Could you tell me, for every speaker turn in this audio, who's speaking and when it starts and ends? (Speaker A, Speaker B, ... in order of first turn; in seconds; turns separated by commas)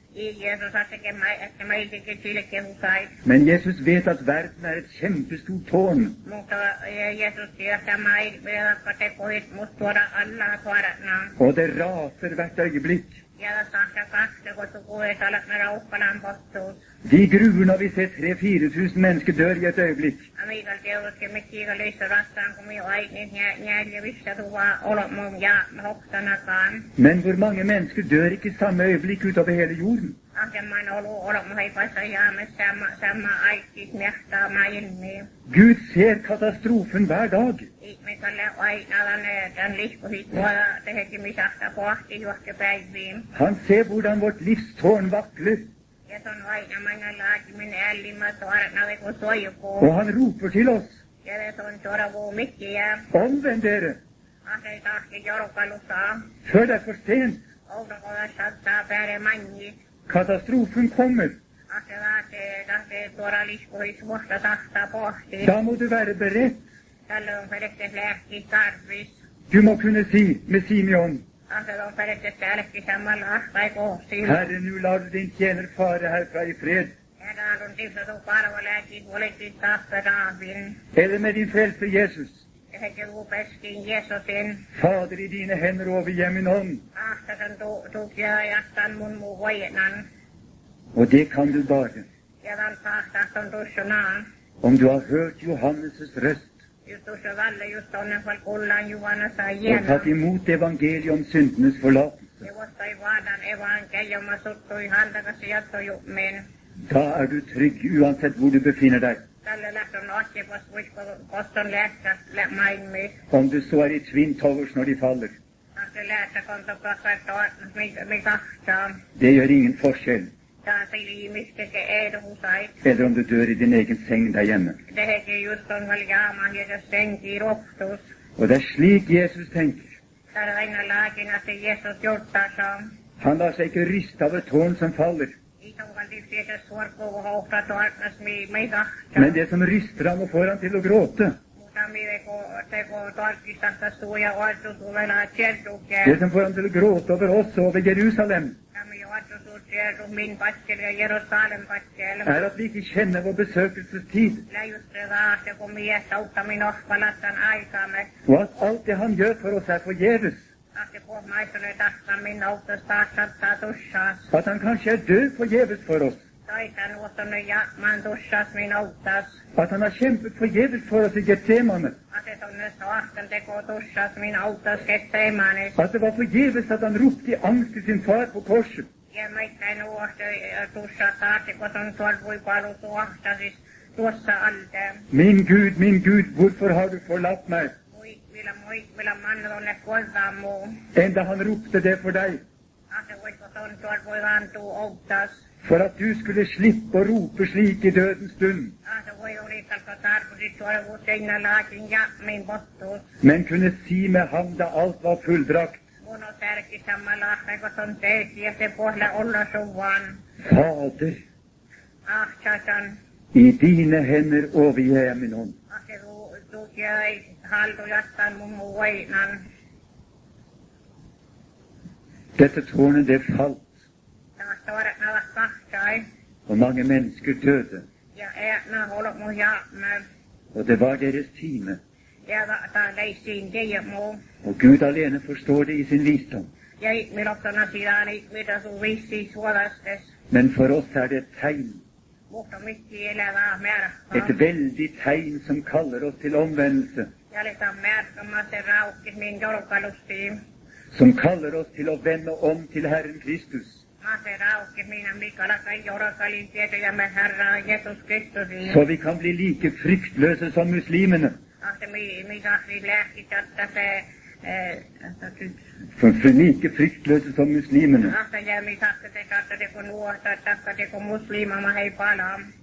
Speaker A: 0.1-3.1, Speaker B: 3.2-6.2, Speaker A: 6.2-11.3, Speaker B: 11.4-13.2, Speaker A: 13.4-16.8, Speaker B: 17.0-20.3, Speaker A: 20.4-26.9, Speaker B: 27.0-30.2, Speaker A: 30.4-35.3, Speaker B: 35.5-37.7, Speaker A: 37.8-43.3, Speaker B: 43.3-45.7, Speaker A: 46.1-49.9, Speaker B: 49.8-50.9, Speaker A: 51.2-53.1, Speaker B: 53.1-54.0, Speaker A: 54.5-56.3, Speaker B: 56.5-57.4, Speaker A: 57.7-59.8, Speaker B: 60.1-61.4, Speaker A: 61.7-65.5, Speaker B: 65.4-66.6, Speaker A: 67.1-69.2, Speaker B: 69.5-71.2, Speaker A: 71.5-74.5, Speaker B: 74.2-76.9, Speaker A: 77.2-80.8, Speaker B: 80.9-82.4, Speaker A: 82.7-84.7, Speaker B: 84.8-86.8, Speaker A: 87.0-90.1, Speaker B: 90.9-92.1, Speaker A: 92.4-94.3, Speaker B: 94.6-96.5, Speaker A: 96.9-100.1, Speaker B: 99.7-102.5, Speaker A: 102.4-106.5, Speaker B: 106.9-109.2, Speaker A: 109.5-113.2, Speaker B: 113.3-115.3, Speaker A: 115.8-119.0, Speaker B: 119.2-120.3, Speaker A: 120.7-122.8, Speaker B: 122.8-124.8, Speaker A: 124.9-128.0, Speaker B: 128.4-129.9, Speaker A: 130.3-132.9, Speaker B: 133.2-135.3, Speaker A: 135.6-139.4, Speaker B: 139.2-141.4, Speaker A: 141.6-146.2, Speaker B: 146.0-148.6, Speaker A: 148.8-152.4, Speaker B: 152.2-154.5, Speaker A: 154.5-158.1, Speaker B: 158.3-160.4, Speaker A: 160.8-164.3, Speaker B: 164.3-166.2, Speaker A: 166.5-169.4, Speaker B: 169.6-172.0, Speaker A: 172.1-175.8, Speaker B: 175.8-178.9, Speaker A: 179.1-185.1, Speaker B: 185.1-187.8, Speaker A: 187.9-190.8, Speaker B: 190.9-192.4, Speaker A: 192.9-195.4, Speaker B: 195.6-198.7, Speaker A: 198.9-203.1, Speaker B: 203.2-205.8, Speaker A: 206.0-210.2, Speaker B: 210.4-211.2, Speaker A: 212.1-213.0, Speaker B: 213.3-215.6, Speaker A: 215.7-219.5, Speaker B: 222.4-223.7, Speaker A: 224.4-226.1, Speaker B: 226.5-227.8, Speaker A: 228.2-230.1, Speaker B: 230.5-231.8, Speaker A: 232.3-234.2, Speaker B: 234.4-236.5, Speaker A: 236.8-240.1, Speaker B: 240.3-241.8, Speaker A: 242.3-244.3, Speaker B: 244.1-247.1, Speaker A: 247.3-250.4, Speaker B: 250.9-253.8, Speaker A: 254.0-258.8, Speaker B: 258.6-261.3, Speaker A: 261.6-265.6, Speaker B: 266.0-268.2, Speaker A: 268.1-272.5